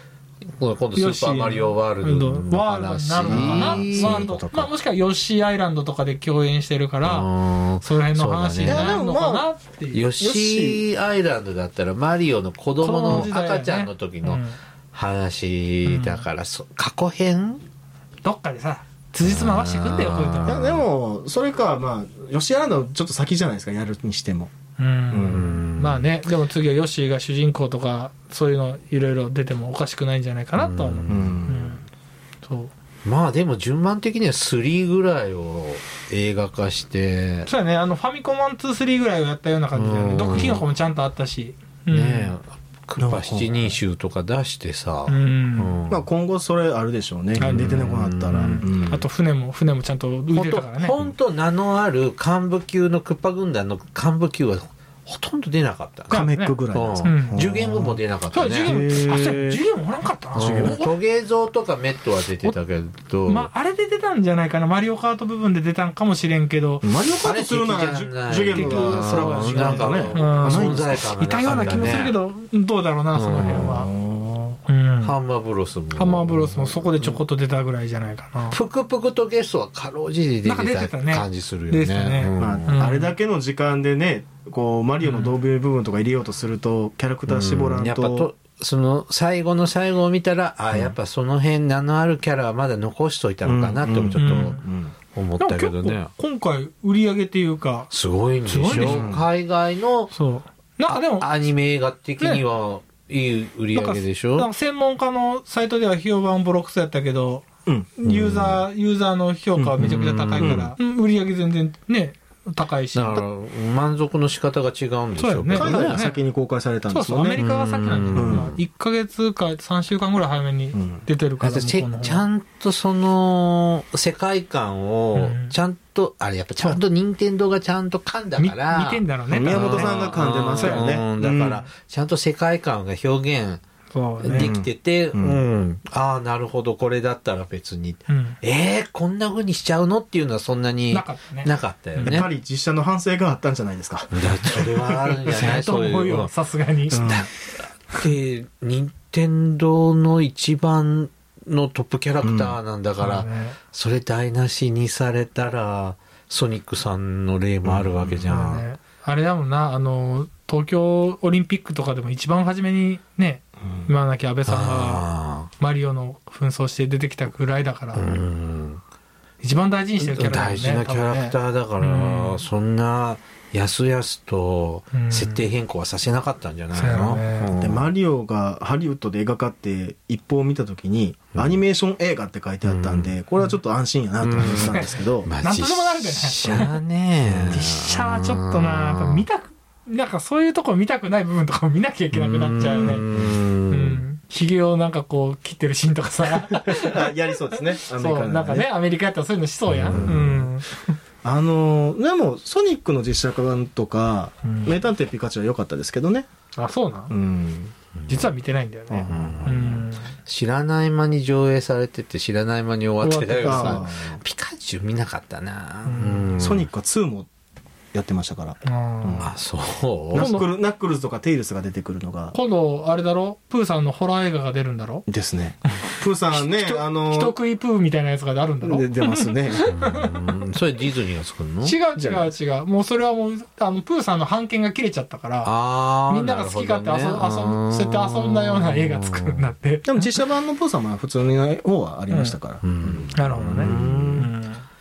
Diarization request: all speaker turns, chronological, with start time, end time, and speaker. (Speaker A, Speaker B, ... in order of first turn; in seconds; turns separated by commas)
Speaker A: 0.6-4.3, Speaker B: 0.9-7.3, Speaker C: 3.2-4.7, Speaker A: 7.0-9.0, Speaker B: 7.8-10.1, Speaker C: 8.7-9.4, Speaker A: 9.9-17.6, Speaker C: 10.2-10.8, Speaker B: 12.8-14.6, Speaker B: 15.8-16.2, Speaker B: 18.2-20.6, Speaker A: 19.2-20.8, Speaker C: 20.4-24.5, Speaker B: 24.8-31.8, Speaker C: 25.1-25.5, Speaker A: 25.3-26.1, Speaker A: 30.5-31.4, Speaker C: 31.1-31.8, Speaker B: 32.4-32.7, Speaker A: 33.0-37.5, Speaker B: 37.5-42.3, Speaker A: 39.7-40.6, Speaker A: 41.9-46.0, Speaker C: 43.0-43.8, Speaker B: 45.1-45.7, Speaker C: 45.9-49.0, Speaker B: 47.4-51.0, Speaker A: 47.4-48.6, Speaker A: 50.3-56.2, Speaker B: 56.1-57.4, Speaker C: 56.1-58.0, Speaker A: 56.7-58.7, Speaker B: 58.3-60.9, Speaker C: 58.6-59.6, Speaker A: 60.3-63.5, Speaker C: 60.4-60.8, Speaker B: 63.2-66.9, Speaker C: 66.8-72.1, Speaker A: 67.2-72.2, Speaker B: 68.5-73.9, Speaker A: 73.1-73.9, Speaker C: 73.5-74.6, Speaker B: 74.7-75.1, Speaker A: 75.0-77.2, Speaker B: 75.9-78.6, Speaker A: 78.5-82.9, Speaker B: 80.4-83.1, Speaker C: 82.4-88.3, Speaker B: 85.0-85.4, Speaker A: 87.3-94.6, Speaker C: 93.4-94.9, Speaker B: 94.2-94.6, Speaker A: 95.1-96.1, Speaker B: 95.4-97.9, Speaker A: 97.9-100.1, Speaker B: 98.4-99.1, Speaker C: 98.7-99.2, Speaker B: 100.1-101.3, Speaker A: 100.9-104.5, Speaker B: 103.7-113.2, Speaker C: 107.7-108.0, Speaker A: 108.1-108.6, Speaker A: 109.8-110.7, Speaker A: 112.9-116.1, Speaker B: 115.2-116.2, Speaker C: 115.5-117.4, Speaker B: 116.9-122.2, Speaker A: 117.4-118.6, Speaker C: 118.1-118.5, Speaker C: 120.7-121.0, Speaker A: 121.4-133.6, Speaker B: 125.1-125.5, Speaker B: 128.4-131.0, Speaker C: 129.3-131.7, Speaker B: 133.9-134.5, Speaker A: 134.2-142.3, Speaker C: 134.3-135.4, Speaker B: 138.1-138.4, Speaker B: 140.9-142.2, Speaker C: 142.0-145.5, Speaker A: 144.1-146.3, Speaker B: 145.3-147.3, Speaker C: 146.9-147.3, Speaker A: 147.0-147.3, Speaker A: 147.8-158.7, Speaker C: 152.2-152.6, Speaker B: 153.0-153.6, Speaker C: 157.7-158.3, Speaker B: 158.3-165.0, Speaker A: 164.4-165.5, Speaker B: 165.6-168.1, Speaker A: 167.9-168.8, Speaker B: 169.4-172.4, Speaker A: 170.0-177.9, Speaker B: 174.9-175.4, Speaker B: 176.7-177.5, Speaker C: 177.5-185.3, Speaker A: 182.6-183.1, Speaker A: 184.2-189.2, Speaker B: 184.4-186.7, Speaker C: 187.3-187.6, Speaker B: 187.5-193.0, Speaker A: 192.1-194.0, Speaker B: 193.7-201.0, Speaker C: 196.5-198.7, Speaker A: 199.7-200.3, Speaker C: 199.9-200.4, Speaker C: 201.2-206.3, Speaker B: 204.4-204.7, Speaker B: 206.6-207.1, Speaker C: 207.1-207.7, Speaker B: 208.1-210.1, Speaker C: 208.9-209.8, Speaker A: 209.1-209.7, Speaker A: 210.2-216.7, Speaker B: 213.0-213.8, Speaker C: 213.4-214.2, Speaker B: 215.8-216.3, Speaker C: 216.4-217.3, Speaker C: 217.9-219.3, Speaker B: 218.6-219.3, Speaker A: 219.2-220.4, Speaker C: 220.1-222.3, Speaker B: 220.1-220.5, Speaker B: 222.3-225.1, Speaker C: 225.1-227.3, Speaker B: 225.8-230.4, Speaker C: 228.6-229.7, Speaker A: 229.6-231.8, Speaker B: 231.6-235.5, Speaker C: 232.0-232.3, Speaker A: 235.4-239.5, Speaker B: 236.1-240.1, Speaker C: 239.8-244.3, Speaker B: 242.1-242.4, Speaker A: 242.6-244.3, Speaker B: 243.1-244.6